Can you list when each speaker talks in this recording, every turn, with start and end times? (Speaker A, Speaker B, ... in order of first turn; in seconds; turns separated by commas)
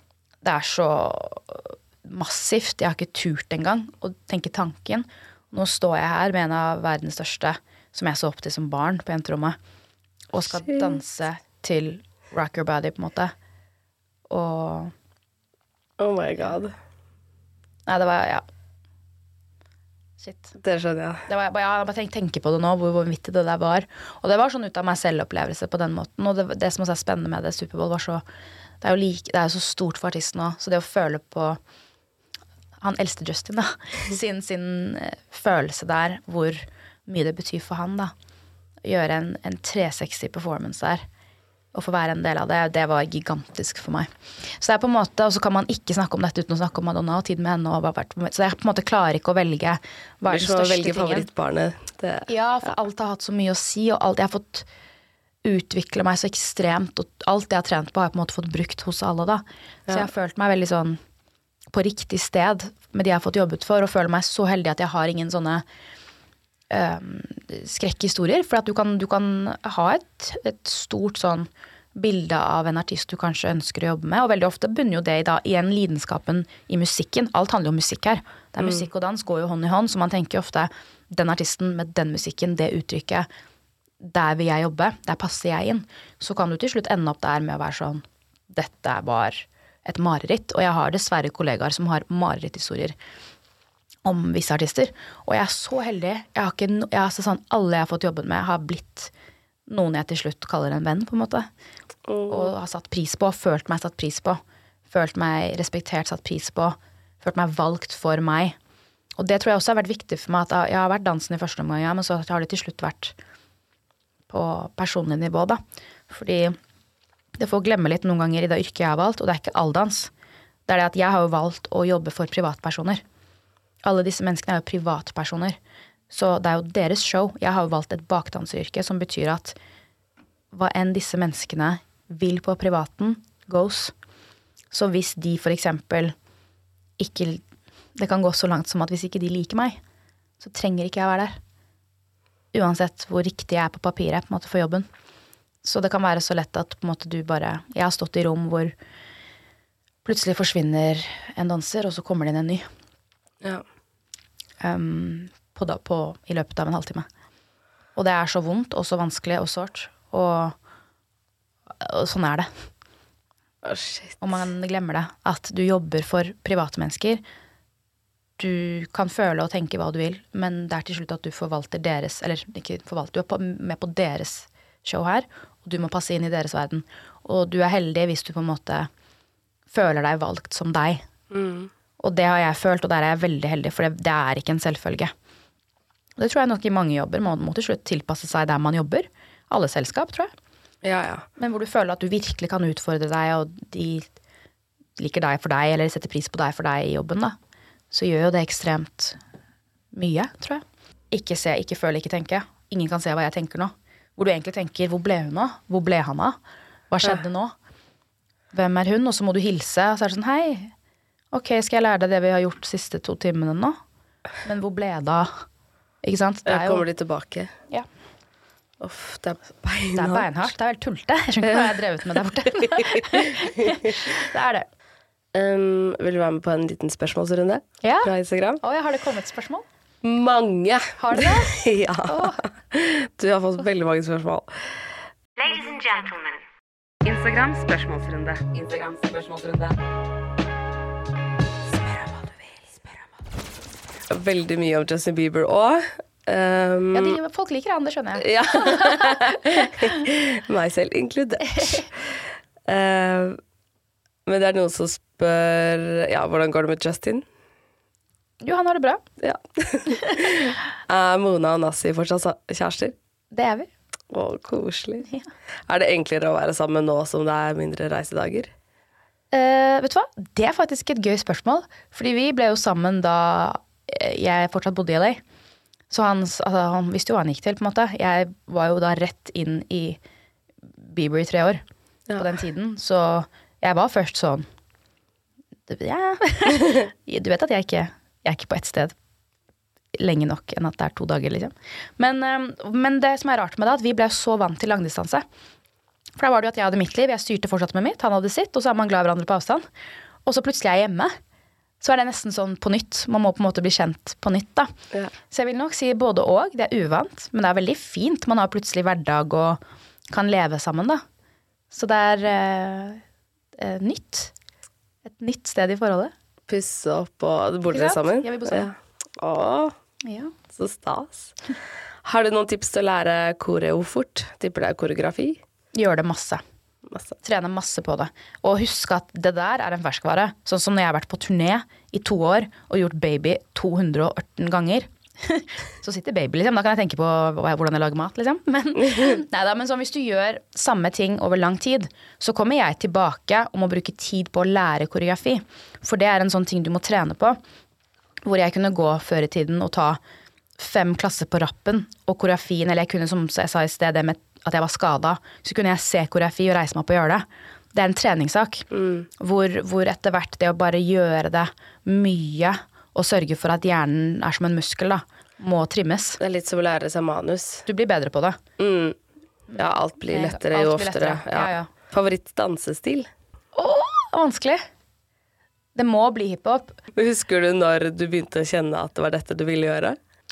Speaker A: 0.4-9.6, Speaker A: 10.3-13.3, Speaker B: 10.5-11.0, Speaker A: 14.3-14.9, Speaker B: 16.0-16.7, Speaker A: 17.9-18.4, Speaker A: 20.2-20.5, Speaker B: 20.6-21.3, Speaker A: 21.3-28.2, Speaker A: 28.8-31.6, Speaker A: 32.8-38.1, Speaker A: 38.8-41.0, Speaker A: 41.7-51.3, Speaker B: 50.3-52.3, Speaker A: 52.3-54.7, Speaker A: 55.4-61.0, Speaker A: 61.7-65.6, Speaker A: 66.7-83.3, Speaker B: 78.6-78.8, Speaker A: 84.0-93.0, Speaker A: 94.0-99.1, Speaker A: 99.7-101.5, Speaker B: 102.1-102.5, Speaker A: 102.3-108.6, Speaker A: 109.2-113.2, Speaker A: 114.3-116.6, Speaker A: 117.4-120.1, Speaker A: 120.7-123.0, Speaker A: 123.8-125.6, Speaker A: 126.1-129.6, Speaker A: 130.5-133.9, Speaker A: 134.7-136.2, Speaker A: 137.0-137.4, Speaker A: 138.0-139.8, Speaker A: 140.4-141.4, Speaker A: 142.5-144.9, Speaker A: 145.6-148.7, Speaker A: 150.1-152.7, Speaker A: 154.6-157.1, Speaker A: 157.9-160.6, Speaker A: 161.8-162.5, Speaker B: 163.6-164.5, Speaker A: 164.2-167.2, Speaker A: 168.4-178.9, Speaker A: 179.7-181.1, Speaker B: 181.3-181.7, Speaker A: 182.0-185.1, Speaker A: 186.2-190.3, Speaker B: 190.8-191.3, Speaker A: 191.4-194.1, Speaker A: 195.0-197.4, Speaker A: 197.9-199.2, Speaker A: 199.9-206.4, Speaker A: 206.9-207.5, Speaker A: 208.5-210.7, Speaker A: 211.3-213.8, Speaker A: 214.4-215.3, Speaker A: 216.0-216.8, Speaker B: 216.5-217.5, Speaker B: 218.8-220.4, Speaker A: 219.9-224.7, Speaker B: 221.4-221.8, Speaker B: 222.7-223.7, Speaker B: 225.3-228.6, Speaker A: 227.8-229.7, Speaker B: 230.0-234.5, Speaker A: 231.0-232.4, Speaker C: 237.0-239.6, Speaker B: 244.1-247.2, Speaker A: 246.9-249.8, Speaker B: 248.2-251.9, Speaker A: 251.6-251.8, Speaker B: 252.7-253.4, Speaker B: 254.3-257.2, Speaker A: 258.4-259.0, Speaker B: 259.2-262.9, Speaker A: 263.3-263.7, Speaker B: 264.1-265.1, Speaker B: 265.7-268.5, Speaker A: 269.3-275.2, Speaker A: 275.9-280.0, Speaker A: 280.8-281.6, Speaker A: 282.2-284.5, Speaker A: 285.7-288.9, Speaker A: 290.0-295.2, Speaker A: 296.2-299.7, Speaker A: 300.2-301.2, Speaker A: 301.8-304.7, Speaker A: 305.3-311.0, Speaker A: 311.7-313.0, Speaker A: 313.6-314.3, Speaker A: 315.1-316.1, Speaker B: 316.5-319.8, Speaker A: 317.7-318.7, Speaker A: 320.1-320.3, Speaker B: 320.5-321.4, Speaker B: 322.1-325.4, Speaker A: 325.7-326.4, Speaker B: 326.9-327.2, Speaker A: 327.2-347.4, Speaker A: 348.2-350.0, Speaker A: 350.6-358.6, Speaker B: 358.7-359.1, Speaker A: 359.2-366.2, Speaker B: 366.2-367.7, Speaker A: 367.7-368.4, Speaker B: 368.6-369.0, Speaker A: 369.5-371.7, Speaker B: 369.6-373.1, Speaker A: 373.6-374.6, Speaker A: 375.8-376.8, Speaker B: 377.0-380.0